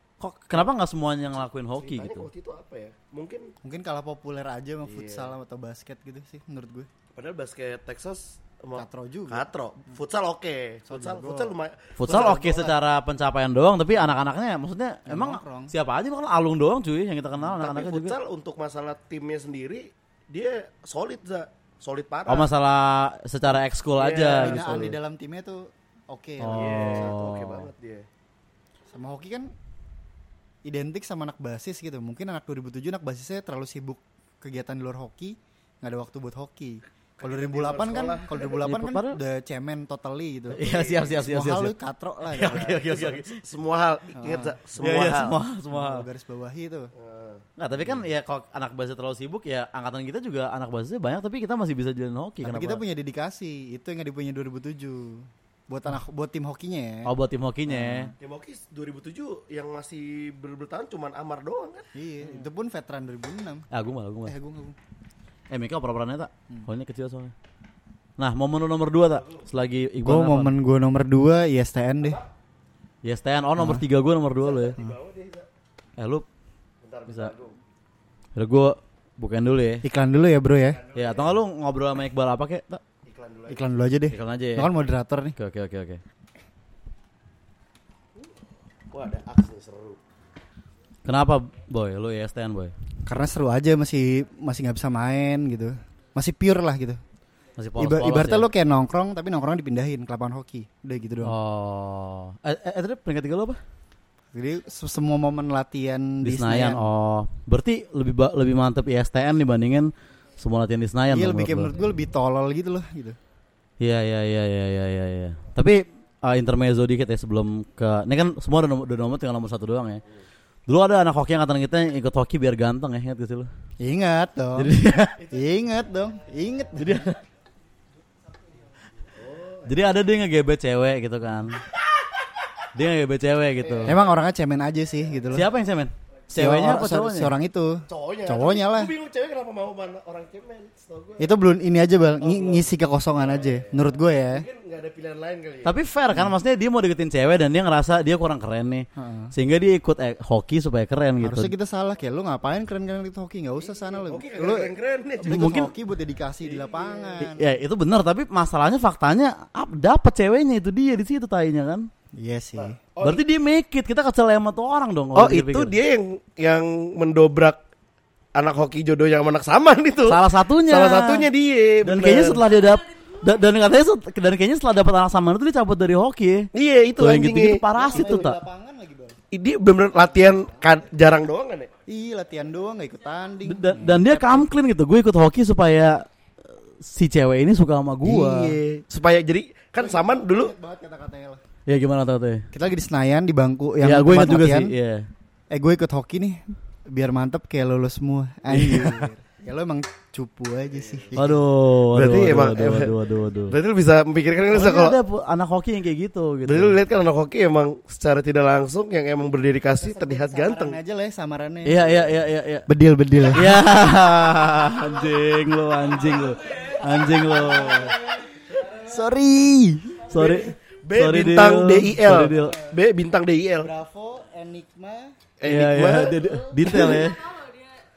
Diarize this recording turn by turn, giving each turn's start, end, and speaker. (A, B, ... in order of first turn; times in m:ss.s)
0:00.2-0:02.3 A
0:01.8-0:03.5 B
0:03.6-0:06.9 C
0:04.9-0:05.3 B
0:07.2-0:12.8 B
0:08.8-0:09.5 C
0:10.9-0:11.5 C
0:12.0-0:18.2 A
0:15.1-0:15.7 C
0:17.6-0:22.5 B
0:22.3-0:24.9 A
0:24.0-0:25.0 B
0:24.3-0:27.2 C
0:26.4-0:27.7 A
0:26.5-0:28.1 B
0:28.9-0:29.5 C
0:30.6-0:42.8 C
0:37.2-0:38.7 B
0:38.6-0:39.2 A
0:40.5-0:41.7 A
0:40.6-0:41.1 B
0:42.3-0:43.4 A
0:42.4-0:45.4 B
0:44.2-0:44.6 C
0:44.8-0:46.0 A
0:45.7-0:46.9 C
0:47.0-0:47.4 B
0:47.6-0:52.8 A
0:52.4-0:57.1 C
0:57.0-0:58.1 A
0:57.7-0:58.2 C
0:58.2-1:01.9 B
1:02.0-1:03.7 C
1:03.7-1:04.4 A
1:04.3-1:04.8 C
1:05.5-1:07.3 A
1:08.2-1:10.5 A
1:10.0-1:12.2 C
1:13.0-1:14.8 A
1:13.6-1:13.8 C
1:14.4-1:15.5 B
1:16.0-1:16.3 A
1:16.8-1:17.6 B
1:17.1-1:17.3 A
1:18.4-1:19.8 A
1:19.8-1:20.8 C
1:20.8-1:21.3 B
1:20.9-1:22.8 A
1:23.1-1:23.7 B
1:23.5-1:25.4 C
1:24.1-1:24.7 A
1:25.4-1:26.0 A
1:28.9-1:30.0 B
1:31.1-1:32.7 A
1:33.1-1:37.0 C
1:37.6-1:38.5 A
1:37.8-1:41.4 C
1:41.2-1:43.6 A
1:44.3-1:46.9 C
1:46.2-1:51.7 A
1:51.1-1:53.2 C
1:53.8-2:00.0 A
2:00.7-2:03.5 A
2:03.8-2:04.7 C
2:04.6-2:05.2 A
2:05.3-2:07.1 C
2:06.8-2:07.2 A
2:09.2-2:09.8 B
2:09.7-2:11.6 A
2:12.7-2:14.0 A
2:13.6-2:14.0 B
2:13.9-2:15.5 C
2:15.3-2:17.3 A
2:16.3-2:18.9 C
2:17.9-2:21.3 B
2:21.2-2:24.5 C
2:22.2-2:25.8 B
2:25.6-2:31.5 A
2:29.0-2:29.3 C
2:31.2-2:37.5 C
2:34.0-2:35.6 B
2:35.2-2:35.7 A
2:36.4-2:37.2 B
2:37.2-2:41.9 A
2:42.2-2:42.8 C
2:42.6-2:43.2 B
2:43.0-2:45.8 A
2:45.2-2:47.6 B
2:48.4-2:52.4 B
2:50.1-2:51.3 A
2:51.8-2:58.4 A
2:56.5-2:58.2 B
2:57.8-2:59.2 C
2:59.3-3:01.7 B
3:00.2-3:00.6 C
3:01.9-3:04.5 C
3:03.4-3:06.1 A
3:06.8-3:08.6 A
3:08.0-3:10.5 B
3:09.8-3:11.4 C
3:11.7-3:12.5 A
3:12.5-3:14.7 C
3:13.8-3:15.1 A
3:15.5-3:21.3 C
3:18.5-3:19.1 A
3:21.2-3:23.6 A
3:21.9-3:23.0 B
3:23.5-3:25.0 B
3:24.5-3:26.8 A
3:26.5-3:30.8 B
3:29.8-3:32.1 C
3:31.6-3:32.7 A
3:32.7-3:33.6 C
3:33.3-3:38.0 A
3:38.5-3:40.1 C
3:40.1-3:42.6 A
3:40.1-3:43.7 B
3:42.3-3:42.8 C
3:43.6-3:45.2 C
3:45.4-3:47.1 B
3:45.4-3:47.4 A